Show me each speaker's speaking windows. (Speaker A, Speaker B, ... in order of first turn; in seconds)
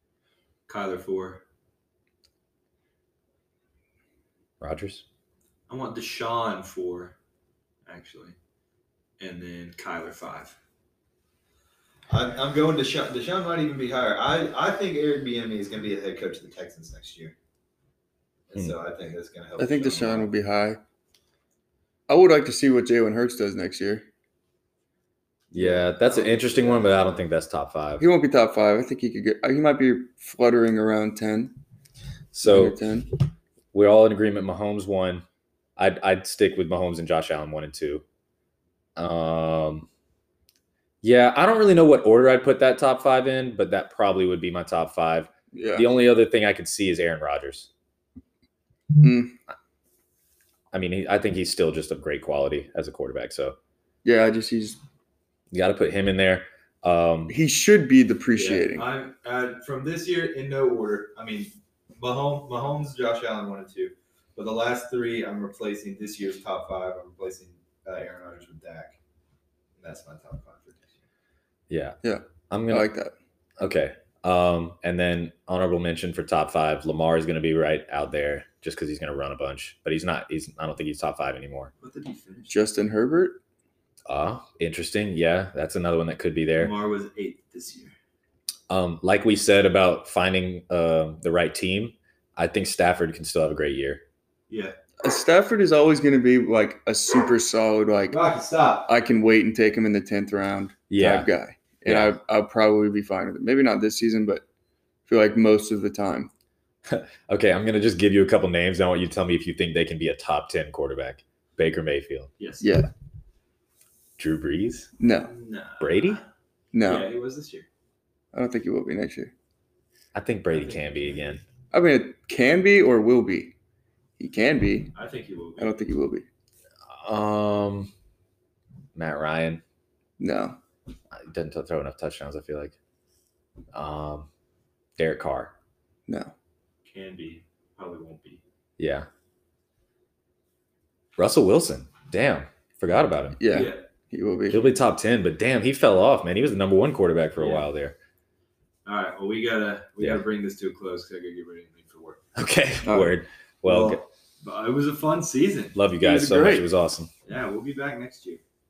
Speaker A: 0.7-1.4, 5.7-7.2, 7.9-8.4, 9.2-10.6, 12.1-17.4, 18.5-20.3, 25.5-27.2, 58.4-69.0, 69.8-71.0, 81.8-82.6, 86.6-88.0, 94.5-94.8, 98.1-98.9, 112.4-112.7, 115.2-116.2, 116.8-117.7, 120.5-121.1, 124.9-125.8, 136.8-138.4, 143.5-143.8, 147.4-147.7, 148.9-152.2, 153.6-155.8, 157.3-158.4
Speaker B: 4.6-5.0, 25.5-28.1, 32.3-32.8, 33.7-35.2, 35.8-38.0, 39.0-39.9, 41.0-47.7, 50.7-53.6, 55.5-57.4, 71.7-72.0, 72.5-72.9, 73.6-81.7, 84.1-86.7, 88.7-94.0, 100.9-101.3, 101.9-102.2, 106.9-112.3, 114.2-114.9, 115.8-116.2, 120.1-121.4, 126.9-127.9, 128.9-129.6, 131.2-132.8, 133.7-134.3, 135.0-135.5, 138.8-139.1, 141.2-143.4, 144.5-148.0, 152.4-154.0, 155.8-157.1
Speaker C: 19.6-20.8, 22.1-24.1, 28.0-31.6, 32.4-33.1, 45.5-45.9, 49.0-49.4, 54.0-54.8, 57.3-58.9, 72.0-73.1, 82.5-83.4, 95.0-98.2, 98.9-104.5, 105.1-106.3, 112.6-112.9, 115.0-115.3, 116.7-117.1, 118.3-119.3, 121.7-123.5, 124.2-124.9, 125.6-126.3, 130.2-130.6, 136.1-136.3, 143.4-144.7, 152.8-153.2, 156.0-156.7